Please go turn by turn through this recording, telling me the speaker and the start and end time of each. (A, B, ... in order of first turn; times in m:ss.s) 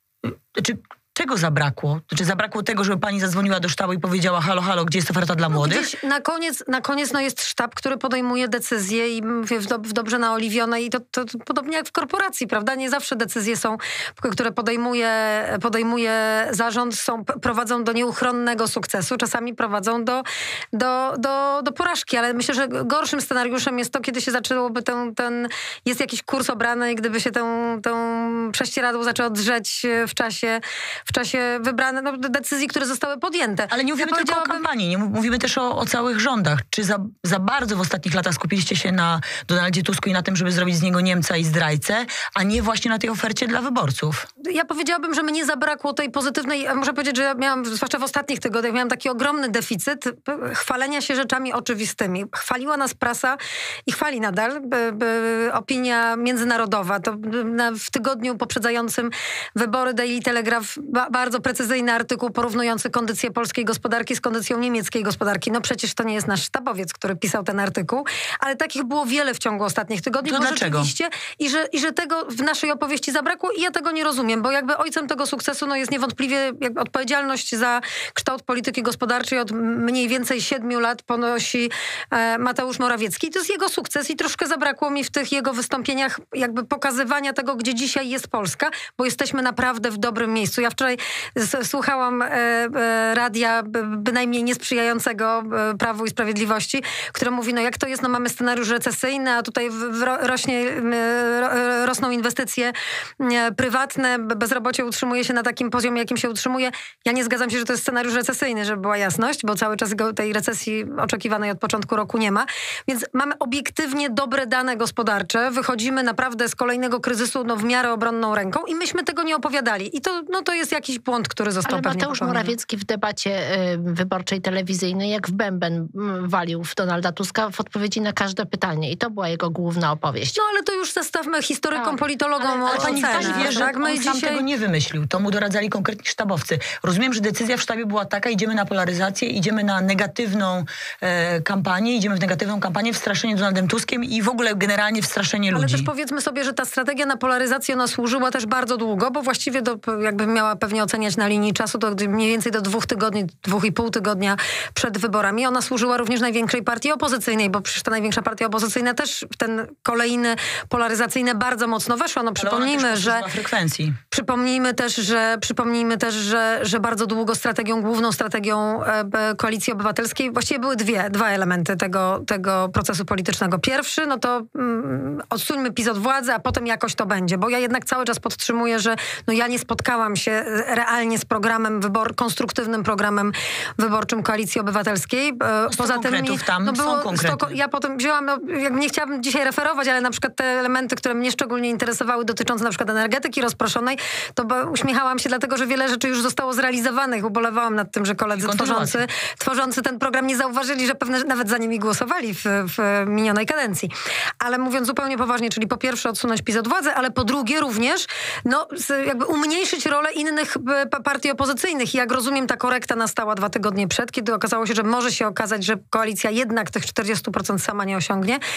0:00.2-0:05.9 A
0:05.5-0:34.6 B
0:33.7-0:44.2 A
0:44.4-2:02.5 B
1:10.2-1:10.9 A
2:01.6-2:10.4 C
2:10.4-2:14.4 B
2:11.7-2:13.7 C
2:12.7-2:25.9 A
2:25.5-2:43.3 B
2:42.4-2:44.0 A
2:44.1-3:38.4 B
3:05.7-3:07.6 A
3:18.3-3:19.0 A